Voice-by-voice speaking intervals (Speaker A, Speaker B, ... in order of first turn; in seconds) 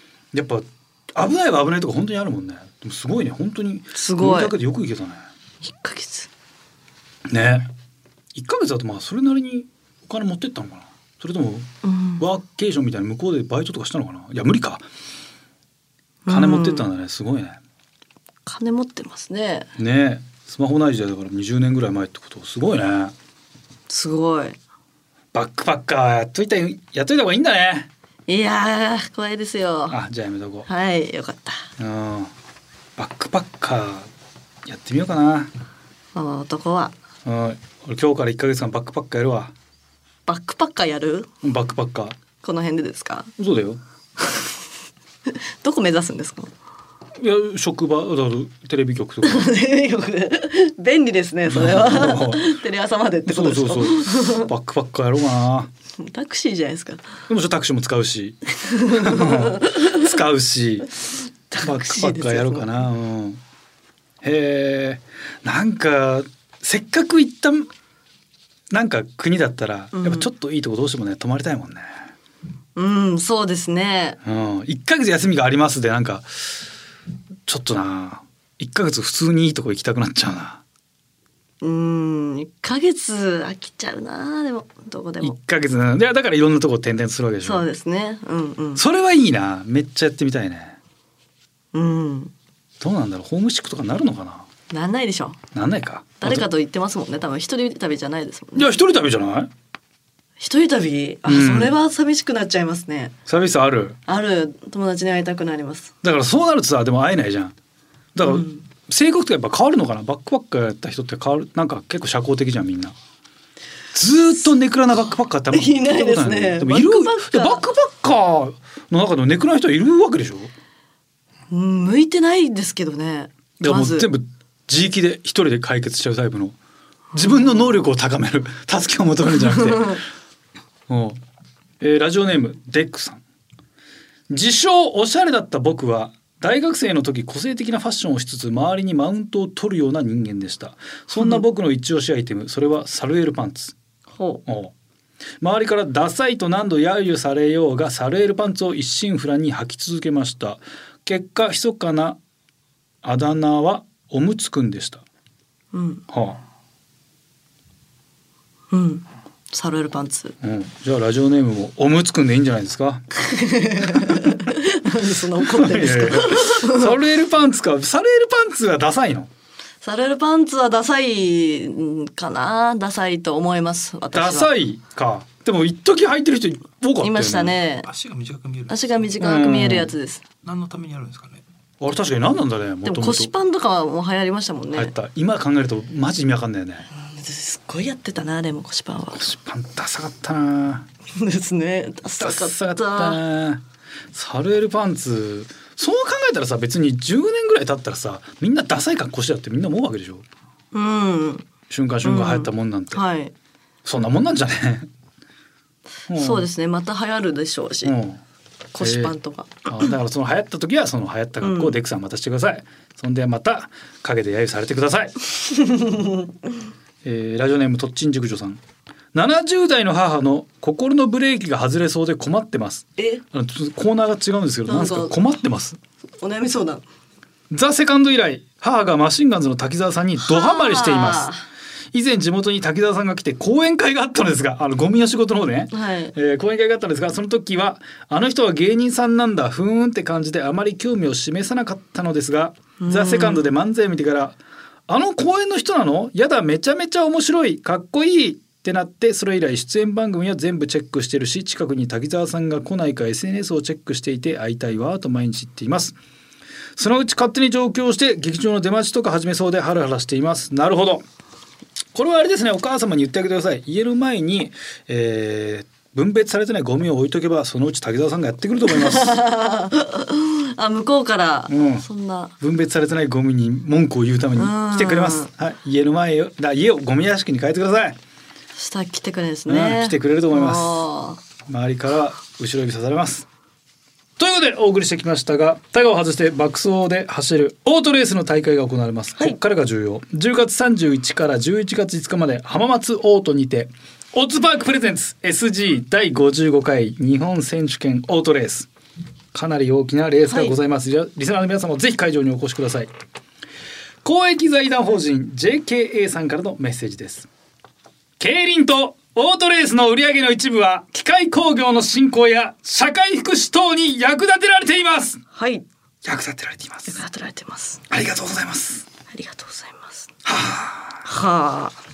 Speaker A: 0.3-5.3, 7.3-7.7, 8.3-14.8, 16.3-17.6, 19.8-23.1, 25.3-27.9, 29.9-30.7, 31.8-32.3, 33.0-34.1, 34.6-35.5, 37.2-39.5, 41.4-42.2, 43.4-43.8, 47.2-49.5, 51.5-52.5, 53.3-55.7, 57.3-60.9, 61.6-63.4, 64.2-67.7, 68.7-72.0, 74.2-76.7, 77.5-80.6, 85.2-87.7, 88.8-90.8, 92.8-94.5, 95.5-96.5, 98.6-99.5, 101.3-101.8, 103.3-104.0, 106.0-107.5, 108.2-113.0, 113.9-120.5, 123.6-126.6, 127.1-130.0, 130.9-131.2, 131.8-133.2, 134.3-143.8, 144.5-144.7, 145.4-152.2, 153.0-155.0, 156.1-156.4, 160.4-163.1, 163.8-164.5, 165.4-169.3, 174.1-177.6, 179.2-179.9, 181.8-183.3, 184.7-186.9, 189.1-190.9, 192.2-200.2, 201.7-203.0, 203.8-204.9, 206.1-206.5, 207.8-208.2, 208.8-209.1, 209.7-215.2, 217.0-218.6, 219.1-225.8, 227.5-231.3, 231.9-244.4, 244.9-256.0, 256.8-261.1, 261.9-269.2, 271.5-271.9, 272.4-278.0, 279.5-280.8, 281.5-283.3, 284.2-298.7, 299.3-302.9, 304.0-307.3, 308.2-315.2, 316.0-317.0, 317.9-318.9, 320.2-321.0
Speaker B: 4.0-4.5, 5.6-6.3, 11.8-12.2, 16.3-16.9, 18.4-19.7, 23.9-24.6, 28.3-30.0, 30.7-31.7, 36.1-37.0, 40.3-41.3, 42.4-43.3, 45.3-46.5, 49.2-54.5, 56.0-57.0, 58.6-60.0, 61.5-62.7, 69.9-70.3, 72.8-74.2, 81.6-85.4, 87.4-88.8, 91.7-92.3, 94.7-95.4, 96.2-98.7, 100.4-103.1, 104.1-105.9, 108.2-108.6, 115.5-117.7, 121.5-124.1, 127.2-127.7, 129.6-129.9, 141.1-141.4, 144.1-144.4, 155.7-156.0, 158.7-160.4, 163.2-166.9, 169.8-174.5, 177.0-177.9, 178.7-180.2, 182.8-184.9, 186.9-189.3, 191.1-193.2, 200.7-201.5, 202.0-203.3, 206.1-207.9, 208.7-209.9, 211.4-211.8, 215.5-216.3, 223.0-223.2, 224.7-225.2, 226.2-226.8, 230.2-231.4, 235.7-236.1, 242.8-243.5, 268.7-272.3, 274.4-275.3, 278.6-281.2, 300.3-300.6, 315.3-315.6, 316.9-317.9, 319.1-320.1, 321.0-321.8
Speaker C: 177.8-179.2, 180.4-181.4